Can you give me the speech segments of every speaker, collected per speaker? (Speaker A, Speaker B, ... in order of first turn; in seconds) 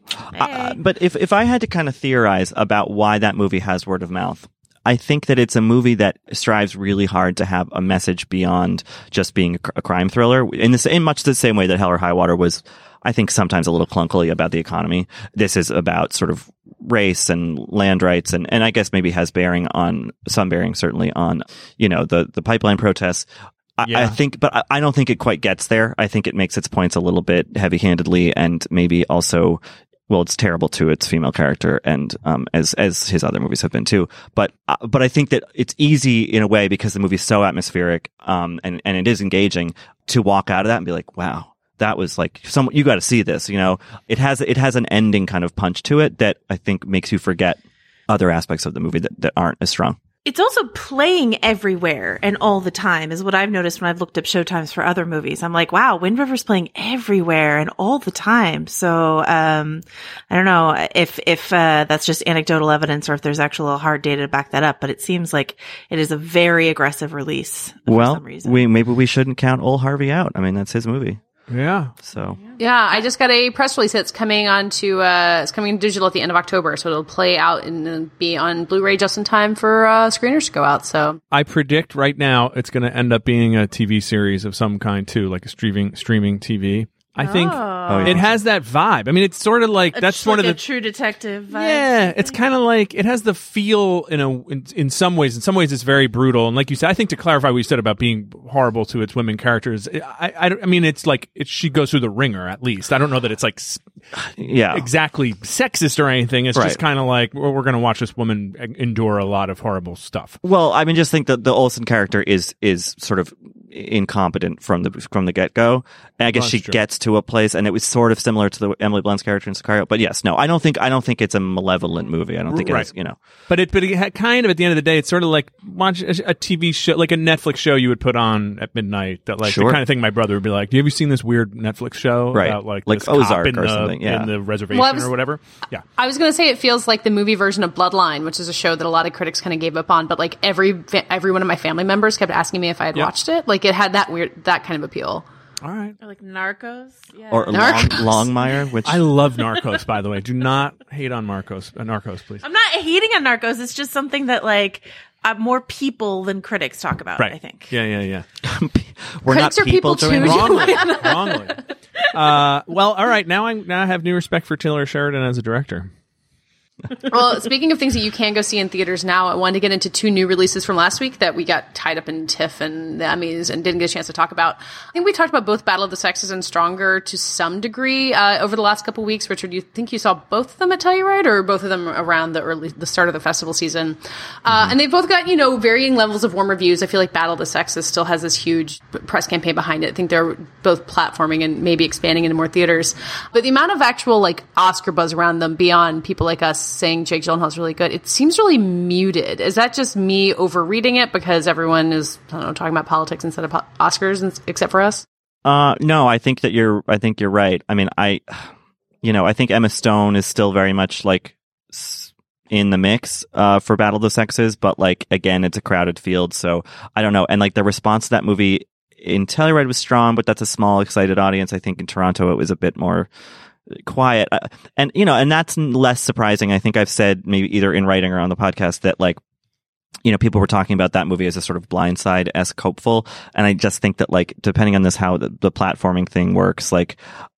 Speaker A: 0.2-50.0, 67.9-71.2, 72.0-72.4, 87.9-88.2, 104.4-104.9, 106.5-106.8, 110.4-123.2, 129.4-129.8, 132.3-134.3, 147.3-149.1, 158.4-160.8, 205.4-208.5, 209.0-223.1, 223.7-229.2, 230.0-237.0
Speaker B: 0.3-0.8, 50.2-68.6, 87.2-88.3, 89.9-92.4, 146.0-148.2, 152.4-157.7
Speaker C: 23.8-24.2, 71.5-71.9, 81.3-90.6, 91.5-110.4, 116.3-116.8, 122.5-122.9, 123.5-135.8, 145.6-145.9, 148.8-152.4, 157.2-158.2, 160.1-161.6, 162.1-165.9
Speaker D: 72.6-81.2, 134.7-135.1, 136.0-145.2, 147.5-148.2, 159.3-161.4, 167.1-205.0